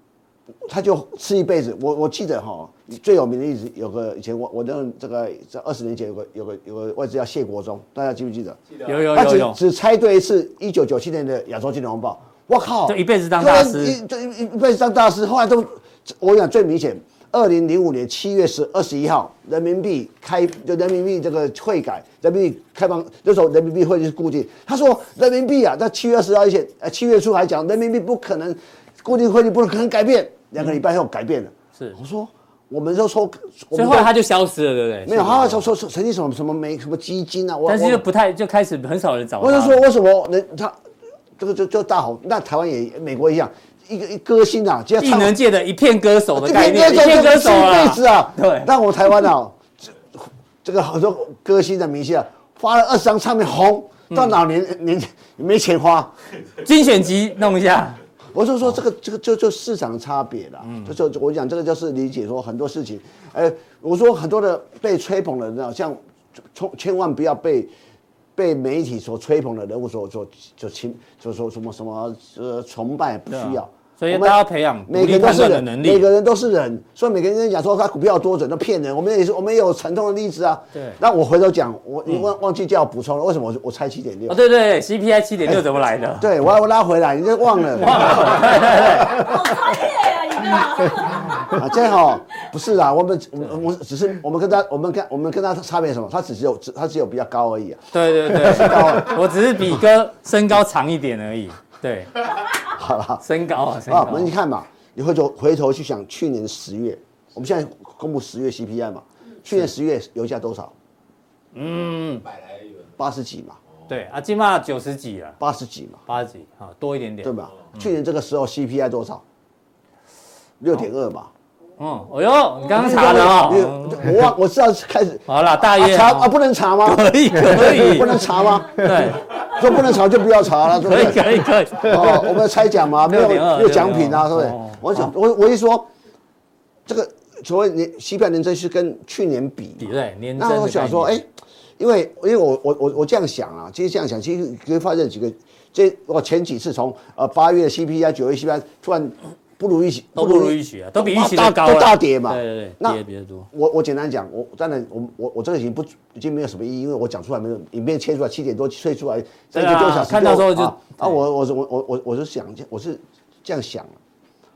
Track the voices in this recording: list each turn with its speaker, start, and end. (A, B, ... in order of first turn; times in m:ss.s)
0:00.6-0:34.1 A
0:08.8-0:09.6 B
0:12.9-0:14.0 B
0:33.8-0:35.7 B
0:35.1-0:38.0 A
0:37.7-0:39.8 B
0:39.4-0:40.8 A
0:41.4-0:45.4 A
0:45.0-0:48.7 B
0:46.4-0:56.1 A
0:54.1-0:54.4 B
0:56.6-0:58.0 B
0:58.3-1:07.7 A
1:00.6-1:00.9 B
1:08.4-1:24.4 A
1:13.3-1:16.1 B
1:20.7-1:21.0 B
1:24.3-1:26.3 B
1:26.2-1:29.3 A
1:27.8-1:29.2 B
1:29.0-1:31.6 C
1:31.5-1:39.2 A
1:37.9-1:42.1 B
1:42.6-1:43.2 A
1:43.2-1:44.3 B
1:43.9-1:50.7 A
1:51.5-1:52.3 B
1:53.0-1:53.6 A
1:53.9-1:55.4 B
1:55.4-1:56.0 A
1:56.1-1:57.9 B
1:57.2-1:59.2 A
2:00.6-2:01.3 A
2:01.8-2:04.2 B
2:02.7-2:15.9 A
2:05.3-2:09.8 B
2:10.8-2:12.3 B
2:12.9-2:15.0 B
2:16.9-2:44.0 A
2:19.8-2:21.2 B
2:30.2-2:33.5 B
2:39.5-2:41.2 B